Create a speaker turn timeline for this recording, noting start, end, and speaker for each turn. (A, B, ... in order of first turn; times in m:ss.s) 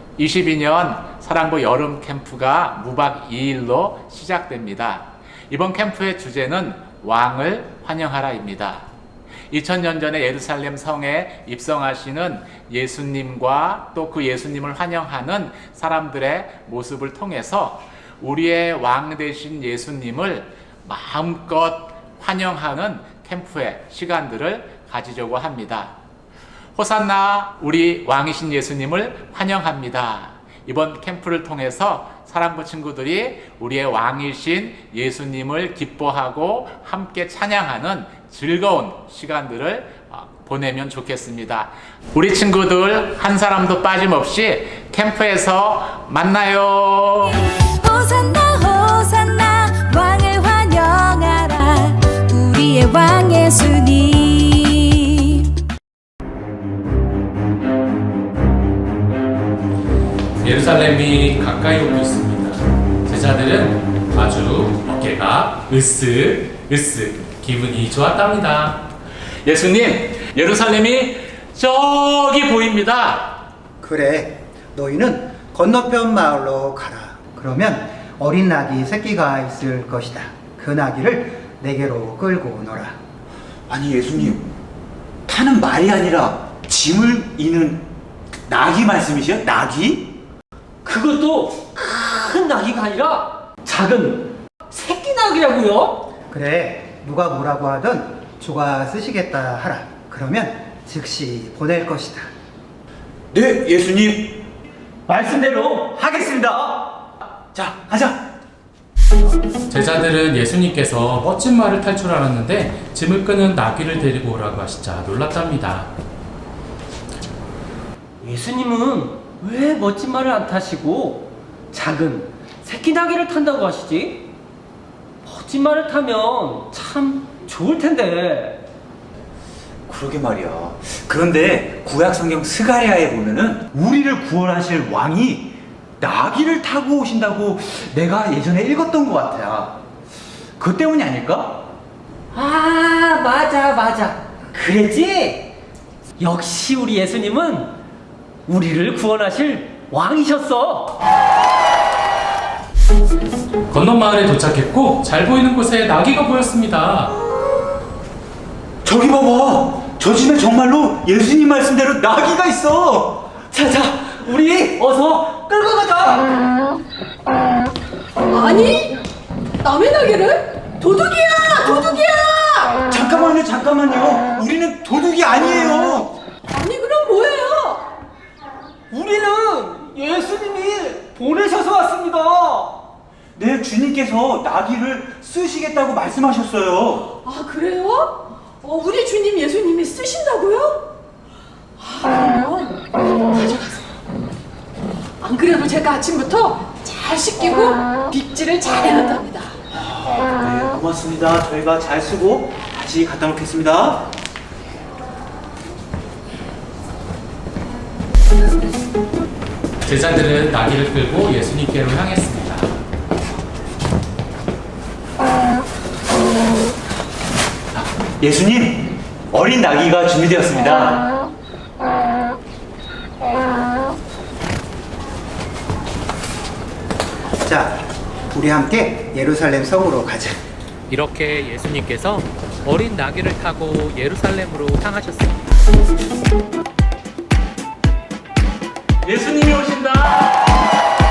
0:00.2-0:08.8 A
0:09.5-0:25.9 A
0:26.8-0:47.4 A
0:47.2-0:55.5 B
1:00.4-1:08.8 C
1:09.4-1:13.4 A
1:13.8-1:23.0 D
1:23.7-1:24.5 E
1:25.3-1:27.9 E
1:28.5-1:30.1 E
1:30.8-1:36.0 F
1:36.3-1:42.3 D
1:43.3-1:44.4 E
1:45.1-1:46.4 F
1:45.9-1:48.2 E
1:49.7-1:55.9 C
1:58.2-2:04.3 F
2:05.2-2:08.6 F
2:09.9-2:19.8 E
2:20.6-2:21.7 E
2:22.3-2:25.5 F
2:26.2-2:27.7 F
2:28.5-2:31.0 F
2:33.7-2:37.1 C
2:38.8-2:43.3 E
2:43.5-2:46.3 F
2:48.3-2:49.0 G
2:49.6-2:52.7 G
2:52.9-2:56.2 E
2:56.5-2:57.9 G
2:58.9-3:02.8 F
3:03.4-3:07.1 E
3:07.3-3:10.8 G
3:11.8-3:13.9 G
3:15.2-3:19.5 G
3:19.7-3:24.1 E
3:29.8-3:32.7 C
3:37.7-3:41.0 E
3:47.4-3:50.4 D
3:50.9-3:55.4 C
3:59.0-4:00.3 A